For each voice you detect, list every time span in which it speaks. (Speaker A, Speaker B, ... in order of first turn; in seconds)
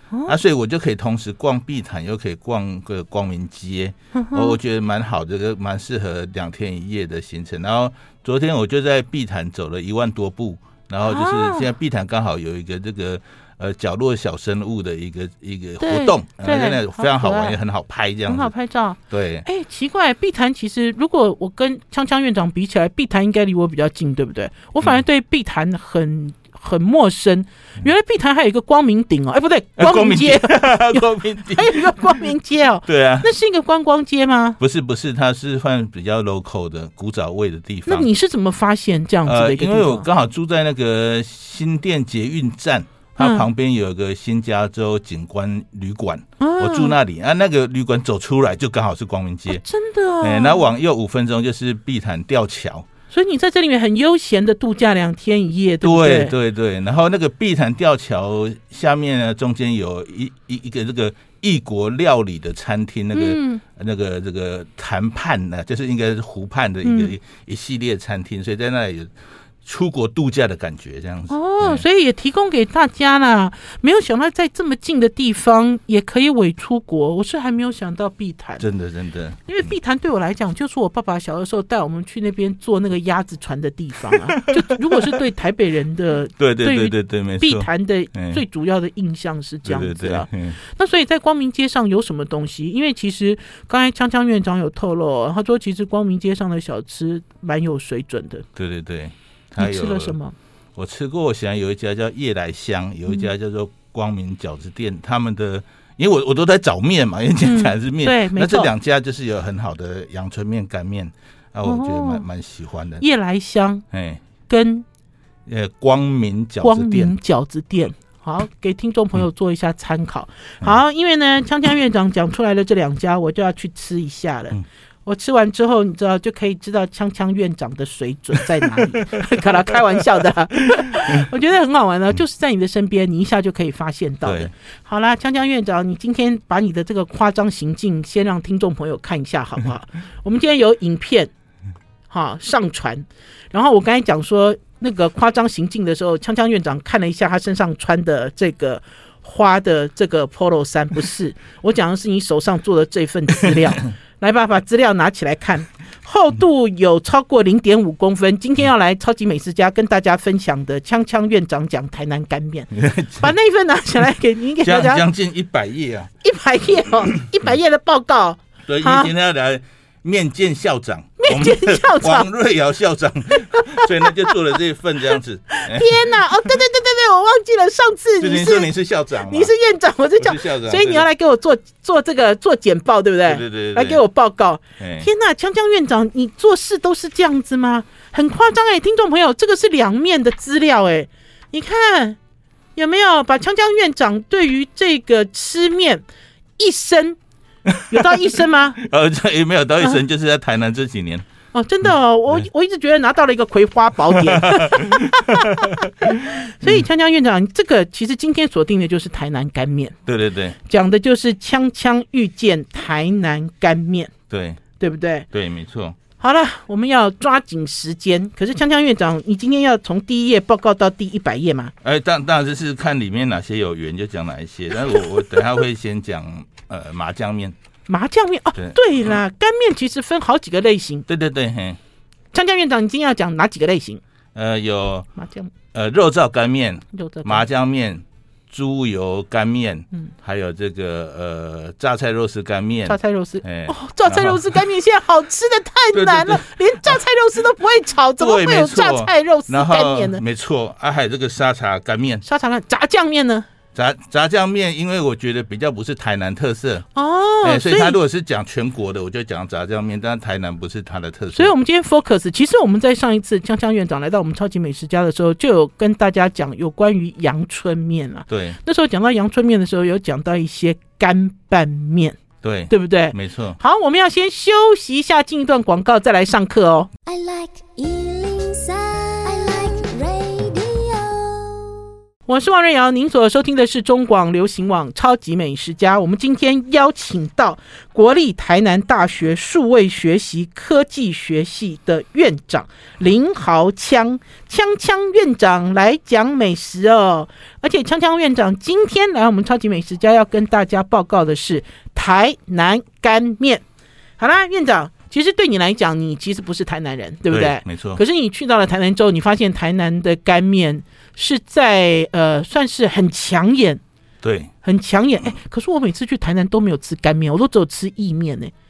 Speaker A: 0.3-18.5, 19.1-19.4, 29.8-32.3, 32.9-33.3, 34.6-38.1, 39.2-49.6, 50.2-52.9, 55.8-69.1, 69.6-71.8, 78.6-79.4, 84.1-85.2, 86.4-88.4, 89.6-90.6, 98.5-100.2, 100.7-113.0, 113.9-114.2, 115.5-117.1, 134.2-134.5, 162.7-163.3, 164.6-166.1, 168.7-176.5, 178.2-179.5, 180.2-181.1, 183.2-184.0, 184.8-185.1, 197.7-198.2, 198.8-201.2, 204.1-206.8, 210.1-210.6, 214.3-214.6, 215.3-216.0, 221.8-227.6, 231.1-231.8, 234.3-235.1, 235.7-244.6, 245.9-246.9, 248.2-252.2, 253.7-256.9, 257.4-261.5, 268.3-268.6, 272.4-273.6, 307.3-308.0, 314.2-314.5
Speaker B: 4.1-4.5, 11.0-11.7, 15.8-17.6, 18.3-34.6, 37.9-40.0, 43.2-43.5, 46.4-47.0, 49.5-50.7, 53.1-56.3, 63.1-63.6, 66.8-67.1, 71.3-78.7, 79.5-98.5, 99.6-100.3, 107.4-108.7, 111.6-112.2, 113.0-113.8, 114.5-114.8, 116.6-141.3, 142.1-165.0, 166.2-169.1, 171.2-172.3, 173.7-174.3, 175.5-178.7, 179.2-192.2, 192.8-196.0, 196.6-197.2, 197.9-198.8, 201.5-210.0, 210.6-214.1, 214.8-215.3, 216.2-221.7, 227.9-231.1, 232.3-234.0, 235.2-235.5, 236.9-237.4, 242.8-250.2, 252.2-253.4, 256.9-258.0, 261.3-272.2, 272.7-276.9, 282.3-303.6, 304.2-313.8, 314.6-318.5
Speaker C: 277.1-281.8